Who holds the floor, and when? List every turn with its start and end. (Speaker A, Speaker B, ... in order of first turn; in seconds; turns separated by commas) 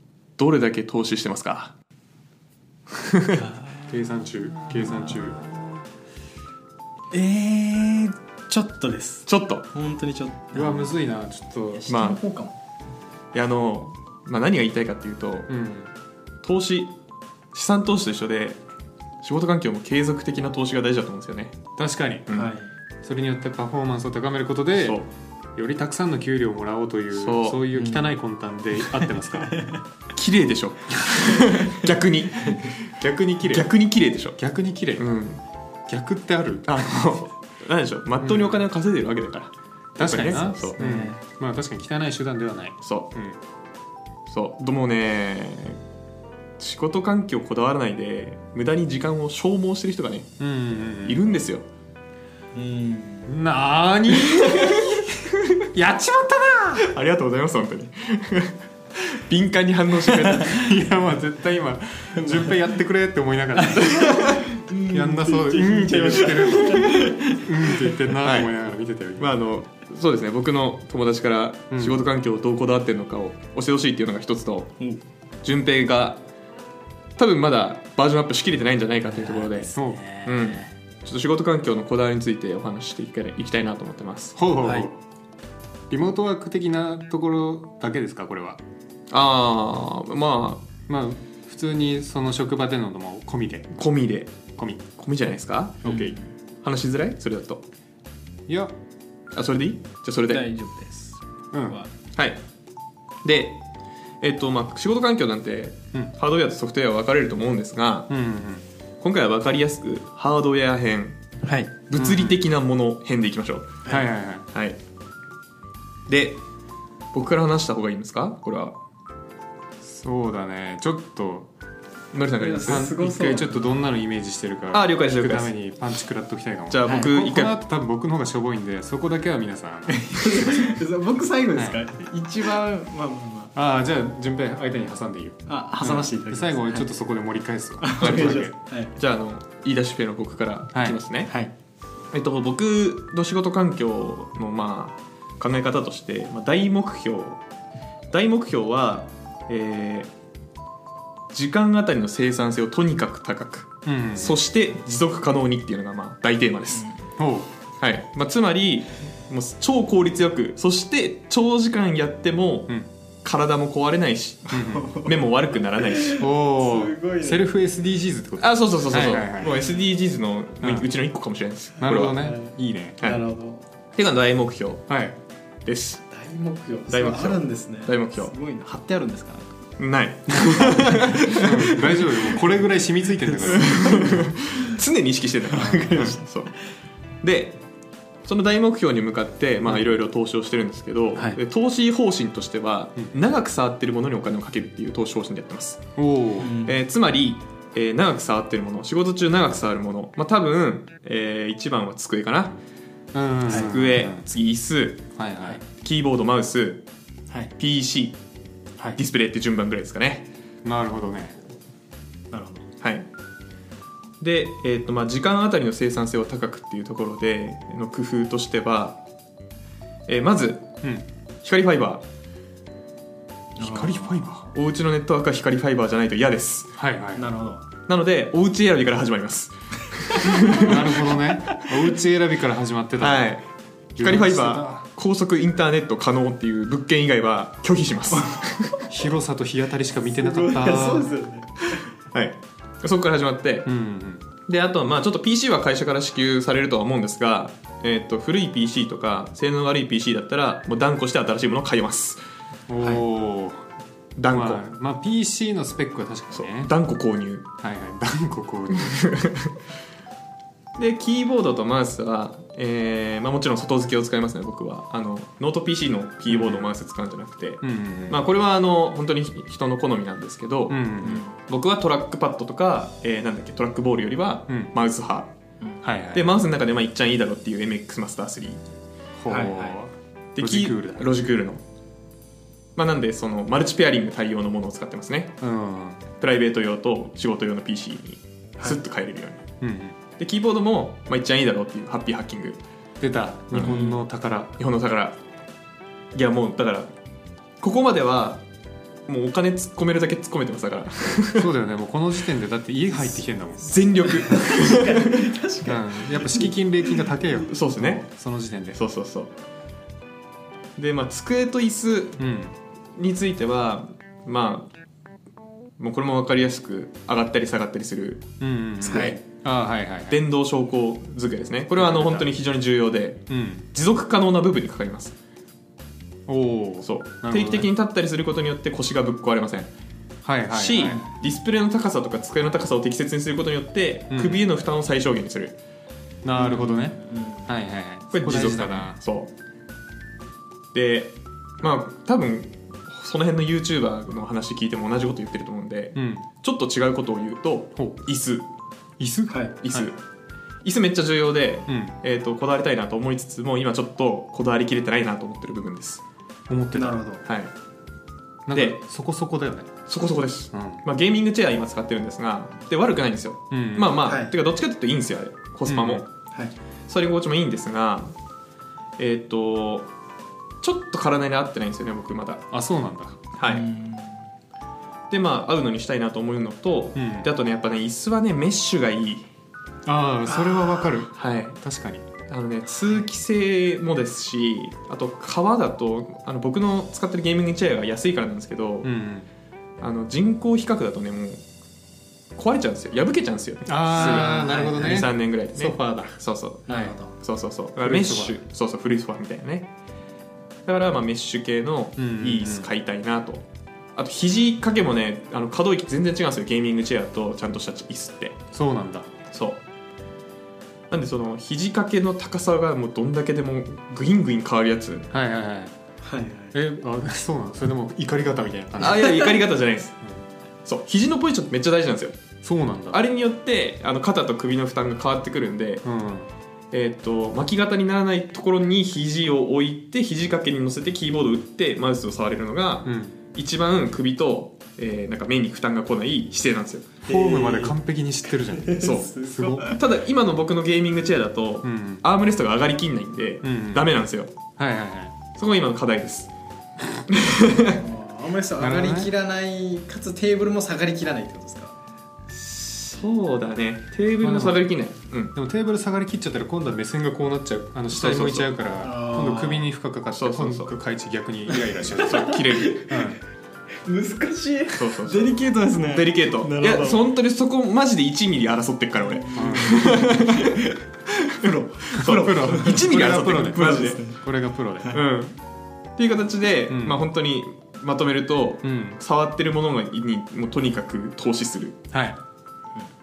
Speaker A: 0.4-1.7, Speaker A: 3.0-3.4, Speaker B: 3.4-3.9, Speaker C: 3.8-5.4, Speaker B: 4.7-5.7, Speaker B: 7.1-11.0, Speaker A: 9.3-9.7, Speaker C: 10.5-11.9, Speaker B: 11.7-12.5, Speaker A: 11.9-12.2, Speaker A: 13.3-15.5, Speaker C: 15.5-15.9, Speaker A: 16.4-16.9, Speaker A: 17.5-18.6, Speaker A: 19.2-21.6, Speaker C: 21.8-22.4, Speaker A: 22.3-22.5, Speaker B: 22.3-22.7, Speaker C: 23.0-25.0, Speaker A: 24.8-25.1, Speaker C: 25.6-29.6, Speaker A: 27.1-27.6, Speaker B: 27.7-28.1, Speaker B: 28.9-29.8, Speaker A: 30.1-34.4, Speaker C: 33.0-33.7, Speaker C: 34.4-35.1, Speaker A: 35.0-35.4, Speaker C: 35.9-37.1, Speaker A: 36.7-40.8, Speaker C: 38.2-38.6, Speaker C: 40.0-43.4, Speaker B: 40.8-41.2, Speaker A: 42.8-43.1, Speaker A: 44.3-45.8, Speaker A: 46.6-50.3, Speaker C: 50.4-51.2, Speaker A: 51.0-51.6, Speaker B: 52.5-53.3, Speaker C: 53.3-55.2, Speaker A: 54.5-54.8, Speaker C: 55.7-56.9, Speaker A: 56.8-60.6, Speaker C: 60.4-64.2, Speaker B: 62.2-62.5, Speaker B: 63.6-68.0, Speaker A: 64.0-64.4, Speaker C: 64.9-69.3, Speaker A: 68.2-68.5, Speaker A: 69.2-74.8, Speaker C: 71.7-72.0, Speaker A: 75.4-76.2, Speaker A: 77.2-84.4, Speaker B: 79.0-80.7, Speaker C: 79.7-80.0, Speaker C: 84.4-85.0, Speaker B: 84.6-84.9, Speaker C: 85.9-88.6, Speaker A: 89.1-90.7, Speaker C: 90.9-93.8, Speaker A: 93.7-94.3, Speaker C: 94.5-94.8, Speaker A: 95.0-97.6, Speaker B: 95.8-96.2, Speaker C: 98.5-98.8, Speaker A: 99.3-100.5, Speaker B: 100.3-101.9, Speaker C: 101.5-101.8, Speaker A: 102.1-102.4, Speaker A: 103.2-103.6, Speaker A: 104.2-108.1, Speaker C: 108.1-108.6, Speaker A: 109.0-111.2, Speaker B: 111.4-111.8, Speaker A: 111.9-113.8, Speaker C: 111.9-112.4, Speaker C: 113.8-114.5, Speaker A: 114.5-114.8, Speaker A: 116.1-116.4, Speaker A: 117.1-118.8, Speaker C: 119.8-121.5, Speaker A: 122.1-123.0, Speaker B: 122.4-123.7, Speaker C: 122.6-130.8, Speaker A: 124.7-125.5, Speaker A: 126.7-127.5, Speaker B: 129.9-133.5, Speaker C: 131.5-131.8, Speaker C: 133.5-138.5, Speaker B: 135.5-136.9, Speaker B: 137.8-138.9, Speaker A: 138.0-141.3, Speaker C: 140.7-141.0, Speaker B: 141.3-141.5, Speaker A: 142.1-147.4, Speaker A: 148.1-150.1, Speaker A: 151.3-156.9, Speaker C: 153.8-154.4, Speaker C: 157.2-157.5, Speaker A: 157.8-166.2, Speaker B: 164.5-167.5, Speaker C: 164.5-164.9, Speaker C: 166.2-169.6, Speaker A: 168.4-172.2, Speaker C: 170.6-170.9, Speaker C: 171.8-173.0, Speaker B: 172.1-173.6, Speaker A: 173.9-174.9, Speaker C: 174.9-175.2, Speaker A: 175.6-176.0, Speaker B: 176.1-179.6, Speaker A: 176.9-178.3, Speaker A: 179.8-182.0, Speaker C: 180.3-184.3, Speaker B: 180.9-182.5, Speaker B: 183.4-184.0, Speaker A: 183.4-186.5, Speaker C: 185.5-186.2, Speaker A: 187.2-187.6, Speaker A: 188.2-195.9, Speaker C: 195.9-196.6, Speaker B: 196.4-196.8, Speaker A: 196.6-202.6, Speaker C: 203.1-204.2, Speaker A: 203.5-205.1, Speaker C: 205.1-205.6, Speaker A: 205.7-206.8, Speaker A: 207.6-208.2, Speaker A: 208.9-210.3, Speaker C: 210.6-211.4, Speaker B: 212.3-212.7, Speaker A: 212.8-213.1, Speaker A: 214.2-219.0, Speaker A: 220.1-220.8, Speaker A: 221.4-222.0, Speaker B: 223.6-224.3, Speaker C: 223.6-224.5, Speaker A: 224.5-226.8, Speaker C: 226.8-227.3, Speaker B: 227.2-227.6, Speaker A: 227.9-230.9, Speaker C: 230.6-233.3, Speaker B: 230.8-231.8, Speaker A: 233.0-233.4, Speaker C: 234.0-234.8, Speaker A: 234.0-238.8, Speaker B: 238.1-238.9, Speaker C: 238.9-241.2, Speaker B: 240.1-241.9, Speaker A: 241.7-243.7, Speaker C: 243.7-244.2, Speaker A: 244.4-252.2, Speaker C: 252.7-253.6, Speaker A: 254.2-254.6, Speaker C: 254.3-256.7, Speaker A: 256.3-257.4, Speaker C: 257.6-259.1, Speaker A: 258.7-259.5, Speaker A: 260.8-270.9, Speaker C: 266.3-266.8, Speaker C: 267.6-268.2, Speaker C: 270.7-271.2, Speaker B: 271.0-271.4, Speaker A: 271.4-275.3, Speaker C: 274.5-274.7, Speaker C: 275.8-276.4, Speaker A: 276.1-278.6, Speaker C: 279.2-281.1, Speaker B: 279.3-279.8, Speaker A: 280.4-281.6, Speaker A: 282.8-285.3, Speaker C: 285.4-286.0, Speaker A: 286.2-289.4, Speaker C: 289.6-290.0, Speaker A: 290.2-292.6, Speaker C: 293.0-294.6, Speaker A: 293.5-293.9, Speaker B: 293.6-294.0, Speaker A: 294.6-295.2, Speaker A: 296.1-296.9, Speaker A: 297.6-298.4, Speaker A: 299.1-301.5, Speaker C: 301.4-303.8, Speaker A: 303.6-305.3, Speaker B: 304.1-307.1, Speaker C: 305.6-308.8, Speaker A: 307.5-308.0, Speaker A: 308.8-309.3, Speaker A: 310.8-312.2, Speaker C: 312.2-312.6, Speaker A: 312.9-314.7, Speaker A: 315.8-318.2, Speaker C: 318.4-320.2, Speaker B: 318.8-319.2, Speaker A: 320.1-325.1, Speaker C: 321.8-322.3, Speaker C: 323.3-323.6, Speaker C: 326.3-327.7, Speaker A: 326.8-329.7, Speaker C: 330.2-331.1, Speaker A: 330.5-335.6, Speaker C: 334.1-334.4, Speaker C: 336.2-339.0, Speaker B: 336.4-337.5, Speaker A: 338.1-339.3, Speaker A: 340.7-348.5, Speaker C: 345.9-346.2, Speaker C: 349.0-349.9, Speaker B: 349.3-349.5, Speaker A: 349.6-350.0, Speaker A: 350.6-356.0, Speaker C: 351.7-351.9, Speaker C: 356.5-357.0, Speaker B: 356.7-357.2, Speaker A: 357.2-357.5, Speaker C: 358.5-359.7, Speaker A: 358.5-358.8, Speaker A: 359.9-366.1, Speaker C: 360.5-360.8, Speaker C: 363.5-364.0, Speaker B: 364.1-364.3, Speaker C: 365.7-366.1, Speaker A: 366.9-368.1, Speaker A: 369.0-369.9, Speaker A: 370.6-372.4, Speaker C: 372.5-373.2, Speaker A: 373.4-373.6, Speaker B: 373.5-374.3, Speaker A: 375.1-379.3, Speaker C: 376.9-377.3, Speaker C: 379.9-382.1, Speaker B: 380.2-381.1, Speaker A: 381.1-381.6, Speaker A: 382.3-388.9, Speaker C: 388.8-389.3, Speaker A: 389.8-391.4, Speaker A: 392.3-399.7, Speaker C: 393.6-396.9, Speaker B: 393.9-395.0, Speaker B: 396.7-397.1, Speaker C: 397.8-398.4, Speaker A: 400.6-403.4, Speaker C: 402.0-402.7, Speaker A: 403.9-408.4, Speaker C: 408.5-409.1, Speaker A: 409.3-409.6, Speaker A: 410.9-415.1, Speaker C: 415.1-415.8, Speaker B: 416.0-416.6, Speaker C: 416.5-419.3, Speaker A: 418.8-419.9, Speaker B: 418.9-419.4, Speaker A: 420.6-422.1, Speaker C: 422.4-423.0, Speaker A: 422.9-425.8, Speaker C: 425.8-426.3, Speaker A: 426.7-436.9, Speaker C: 432.8-433.2, Speaker B: 437.1-437.8, Speaker C: 437.1-439.8, Speaker B: 438.4-439.7, Speaker A: 438.8-444.3, Speaker C: 441.6-442.0, Speaker C: 443.4-443.9, Speaker C: 444.6-445.1, Speaker A: 445.3-446.3, Speaker A: 447.1-447.8, Speaker B: 447.6-451.7, Speaker C: 448.6-449.1, Speaker A: 452.3-455.3, Speaker C: 454.2-454.6, Speaker C: 455.3-463.2, Speaker A: 457.9-458.5, Speaker B: 458.8-459.7, Speaker A: 460.1-460.7, Speaker B: 461.5-463.1, Speaker A: 462.0-462.8, Speaker B: 463.8-467.1, Speaker A: 464.7-470.6, Speaker B: 469.0-472.9, Speaker C: 469.3-470.0, Speaker A: 471.4-474.0, Speaker C: 472.0-475.0, Speaker B: 473.6-474.2, Speaker A: 474.9-475.3, Speaker A: 476.0-481.8, Speaker C: 476.7-477.1, Speaker C: 478.6-479.0, Speaker C: 481.9-482.2